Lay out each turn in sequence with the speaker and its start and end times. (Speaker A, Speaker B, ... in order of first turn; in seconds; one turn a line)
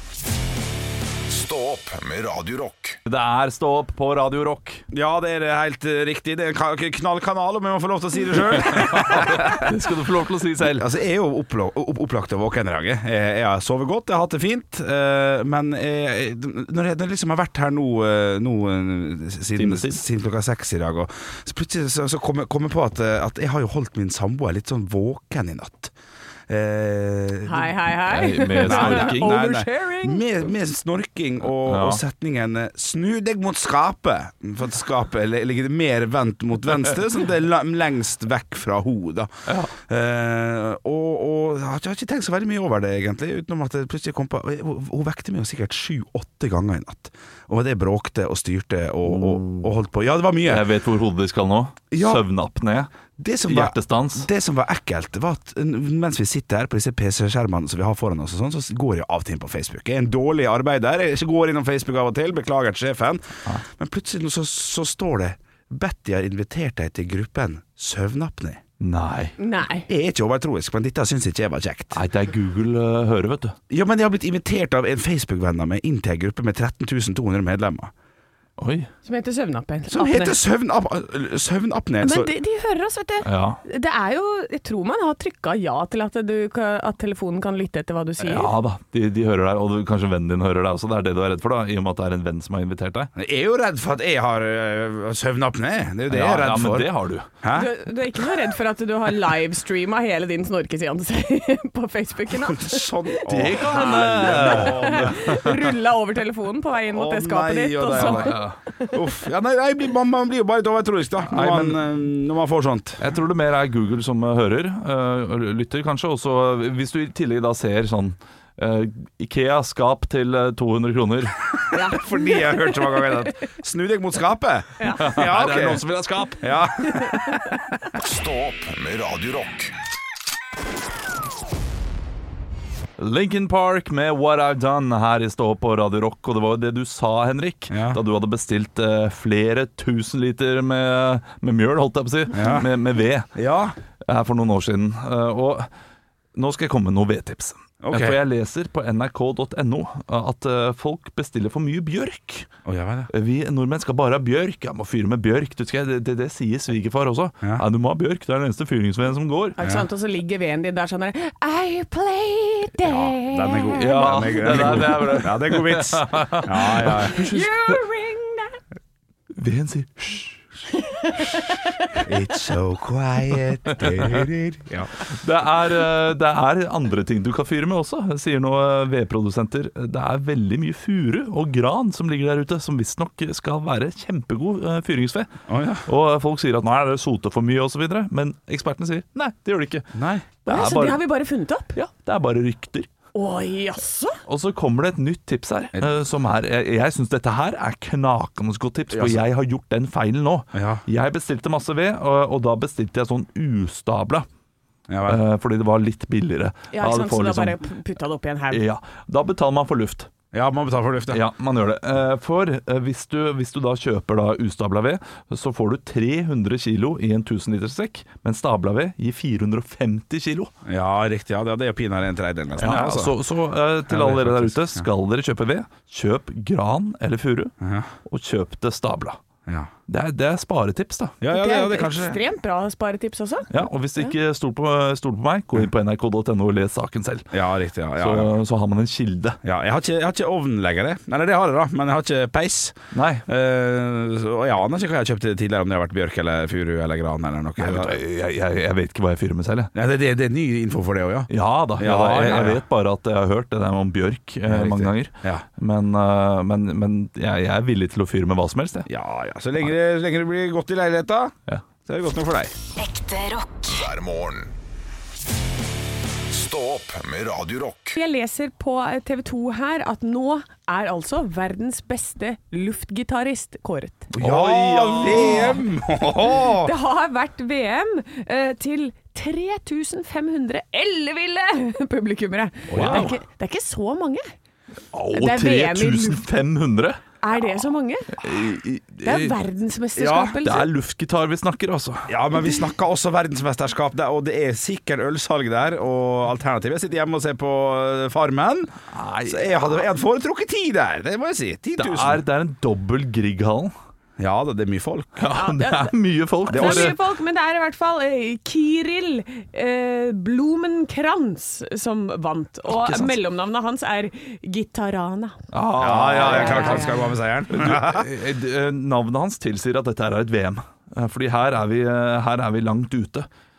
Speaker A: 1.3-3.0
Speaker B: 3.1-4.8
Speaker C: 4.9-9.8
Speaker B: 8.6-10.9
Speaker C: 10.7-25.9
Speaker B: 19.6-20.0
Speaker C: 26.5-27.9
Speaker D: 27.5-30.2
Speaker B: 28.1-29.4
Speaker C: 28.6-50.7
Speaker B: 31.6-32.0
Speaker B: 39.5-39.7
Speaker B: 49.1-49.7
Speaker B: 50.4-52.9
Speaker C: 51.9-52.2
Speaker C: 53.2-68.6
Speaker B: 53.5-54.3
Speaker B: 68.8-69.3
Speaker D: 69.4-69.9
Speaker C: 69.9-72.0
Speaker B: 71.9-73.6
Speaker C: 73.7-77.9
Speaker B: 78.6-78.9
Speaker D: 79.0-80.4
Speaker C: 79.9-82.3
Speaker D: 82.0-88.5
Speaker B: 83.2-83.6
Speaker B: 88.2-93.1
Speaker C: 93.2-96.9
Speaker B: 96.1-97.3
Speaker C: 97.4-97.7
Speaker D: 97.5-109.0
Speaker C: 102.3-105.3
Speaker B: 103.3-105.7
Speaker C: 106.9-108.4
Speaker B: 107.9-108.6
Speaker C: 108.9-113.0
Speaker B: 111.3-111.8
Speaker B: 113.0-121.4
Speaker D: 121.7-123.2
Speaker C: 121.8-125.8
Speaker D: 124.8-125.1
Speaker B: 125.0-126.5
Speaker C: 126.4-127.6
Speaker D: 126.8-127.3
Speaker A: 128.0-129.7
Speaker B: 133.0-143.3
Speaker C: 137.7-138.0
Speaker C: 142.3-142.7
Speaker C: 143.3-143.8
Speaker B: 144.1-145.7
Speaker B: 146.3-152.5
Speaker C: 147.8-148.2
Speaker C: 152.7-153.1
Speaker B: 153.1-159.6
Speaker D: 159.6-164.4
Speaker C: 159.6-159.8
Speaker C: 162.8-167.2
Speaker B: 163.8-167.8
Speaker D: 167.0-168.6
Speaker B: 169.4-170.6
Speaker D: 170.9-172.0
Speaker C: 172.0-174.9
Speaker B: 173.7-174.3
Speaker B: 175.0-185.3
Speaker C: 185.5-185.8
Speaker B: 185.9-191.0
Speaker C: 189.9-190.2
Speaker D: 190.5-191.8
Speaker B: 191.7-192.9
Speaker D: 193.1-194.2
Speaker B: 194.3-204.3
Speaker C: 198.9-199.2
Speaker C: 200.5-200.8
Speaker C: 204.9-205.2
Speaker B: 205.1-207.6
Speaker D: 206.7-208.6
Speaker B: 208.5-210.1
Speaker C: 210.3-211.2
Speaker B: 211.1-220.5
Speaker C: 220.7-223.1
Speaker B: 222.6-227.5
Speaker C: 223.9-224.9
Speaker C: 227.6-227.9
Speaker B: 228.1-229.2
Speaker B: 229.9-231.2
Speaker C: 231.2-232.2
Speaker D: 231.3-234.1
Speaker B: 233.5-237.4
Speaker C: 237.3-238.3
Speaker B: 238.0-239.4
Speaker C: 239.4-248.0
Speaker B: 242.9-243.2
Speaker B: 247.6-249.7
Speaker C: 249.7-252.6
Speaker B: 251.3-258.9
Speaker C: 254.5-255.4
Speaker C: 258.9-262.5
Speaker A: 262.8-264.5
Speaker A: 266.3-268.0
Speaker D: 267.9-274.1
Speaker B: 274.1-275.6
Speaker C: 274.2-276.7
Speaker D: 276.5-284.3
Speaker C: 282.7-283.1
Speaker B: 282.7-283.2
Speaker B: 284.9-287.0
Speaker D: 285.1-286.2
Speaker D: 287.2-288.2
Speaker B: 288.2-289.4
Speaker D: 289.0-290.7
Speaker C: 290.0-290.4
Speaker B: 290.4-292.1
Speaker C: 292.1-302.2
Speaker B: 298.9-299.8
Speaker B: 301.8-303.7
Speaker C: 304.2-305.2
Speaker B: 305.2-307.0
Speaker D: 305.3-305.9
Speaker C: 306.5-307.0
Speaker D: 306.5-315.4
Speaker B: 312.7-313.2
Speaker B: 315.5-323.3
Speaker C: 315.8-318.1
Speaker D: 316.2-317.0